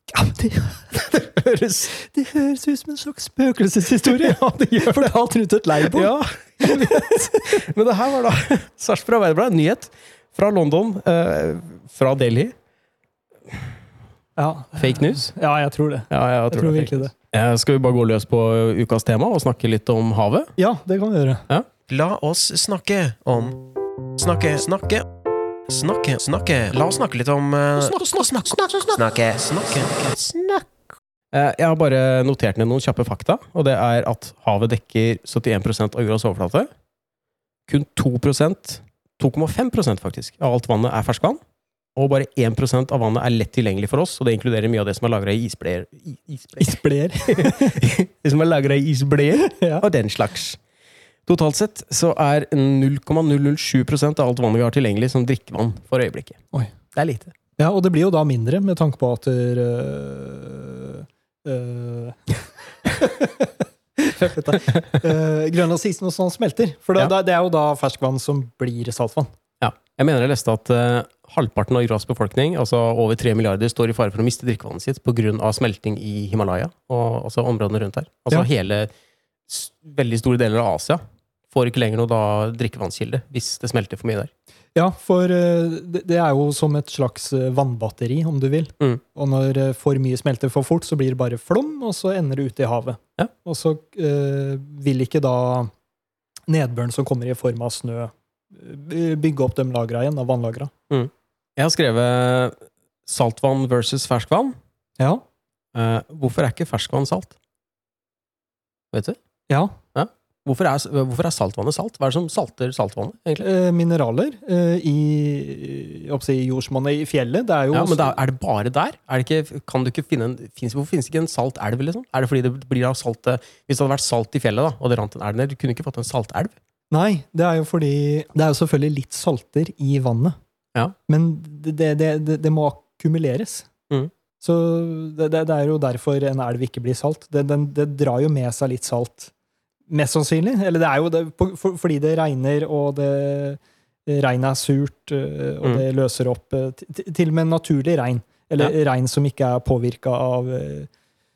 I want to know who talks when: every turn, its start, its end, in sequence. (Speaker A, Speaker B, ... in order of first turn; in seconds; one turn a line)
Speaker A: 0.1-0.9
Speaker B: 0.9-1.9
Speaker A: 1.9-7.5
Speaker B: 4.0-5.1
Speaker B: 5.9-12.6
Speaker A: 14.4-17.1
Speaker B: 14.8-15.3
Speaker B: 16.1-20.5
Speaker A: 20.6-21.4
Speaker C: 21.9-23.6
Speaker C: 24.2-25.1
Speaker C: 25.7-30.6
Speaker B: 27.8-29.0
Speaker B: 31.3-36.7
Speaker B: 37.7-41.4
Speaker B: 42.0-46.8
Speaker A: 46.6-47.8
Speaker B: 47.3-50.6
Speaker A: 49.4-49.9
Speaker B: 51.3-57.3
Speaker A: 57.6-69.3
Speaker B: 69.6-78.9
Speaker B: 79.5-84.3
Speaker A: 84.8-95.7
Speaker A: 96.5-100.7
Speaker B: 100.9-104.6
Speaker A: 105.0-105.2
Speaker B: 105.7-107.3
Speaker B: 108.9-109.2
Speaker A: 109.5-109.8
Speaker B: 110.0-113.5
Speaker A: 113.4-118.2
Speaker B: 117.7-126.5
Speaker A: 126.9-130.4
Speaker A: 131.1-133.7
Speaker A: 134.4-139.3
Speaker A: 139.9-150.9